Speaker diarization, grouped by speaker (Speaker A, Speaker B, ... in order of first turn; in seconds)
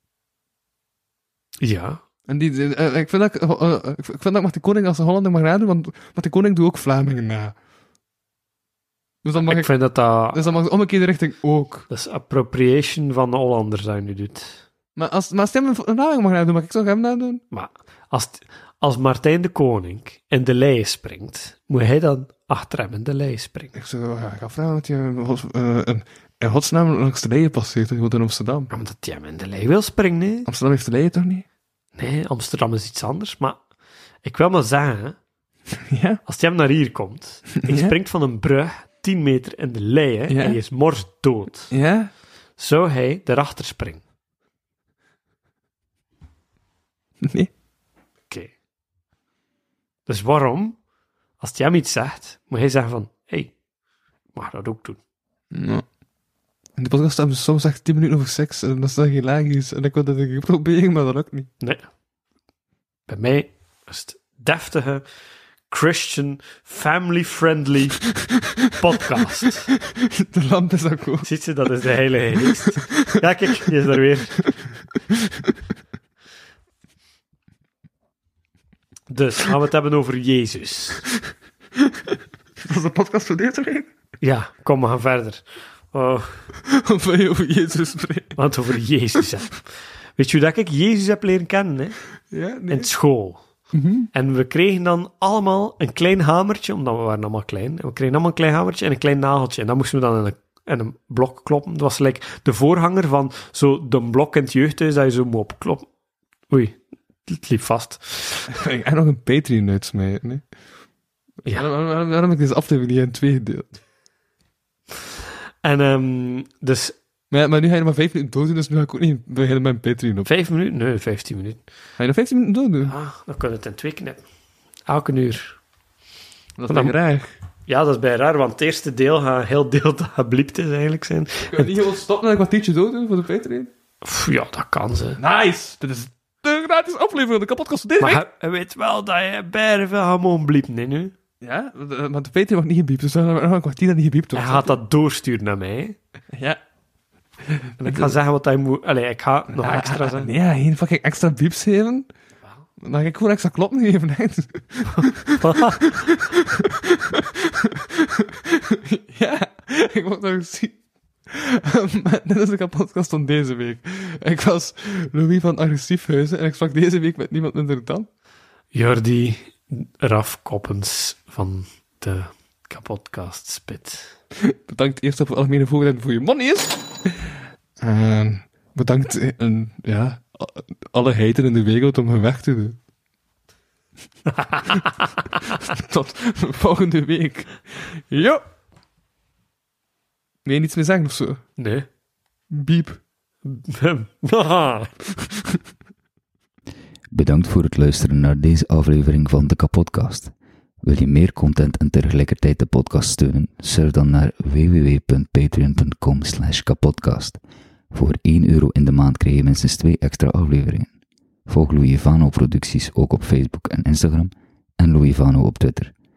Speaker A: 1.6-2.0, 9.3-10.4, 11.9-14.6, 17.5-23.7, 28.7-30.5, 32.0-33.6, 34.2-35.2, 36.2-41.7, 42.6-44.0, 50.1-50.8, 51.4-53.5, 54.3-55.0, 63.1-65.0, 65.7-68.0, 68.8-69.7, 71.2-74.5, 79.1-81.1, 84.2-86.5, 88.4-89.6, 90.2-92.0, 92.7-93.4, 94.1-105.9, 106.5-108.5, 115.6-116.9, 120.2-121.6, 122.8-124.2, 124.9-125.6, 126.7-126.9, 127.7-131.7, 134.0-135.2, 138.0-141.1, 144.3-146.0, 147.8-150.3, 155.4-155.9, 168.7-174.1, 184.3-184.9, 191.6-191.9, 193.4-194.9
Speaker B: 2.3-7.5, 9.2-9.7, 10.3-11.9, 14.9-17.4, 23.7-28.7, 30.4-31.4, 35.7-36.2, 37.6-38.0, 40.3-40.6, 41.7-42.1, 47.2-47.5, 55.5-55.8, 56.8-61.5, 68.2-68.8, 69.9-71.3, 72.8-73.1, 75.1-75.5, 82.6-83.9, 86.6-88.4, 92.3-92.9, 93.7-94.1, 108.5-110.4, 111.5-113.8, 117.3-120.3, 122.0-122.9, 126.6-127.3, 131.5-133.7, 135.2-138.2, 141.4-144.8, 146.3-146.6, 147.4-148.1, 149.5-152.1, 152.8-160.8, 161.3-168.1, 174.4-182.8, 185.5-188.4, 190.4-191.4, 192.5-193.0
Speaker C: 197.1-207.4, 207.9-210.9, 211.5-215.9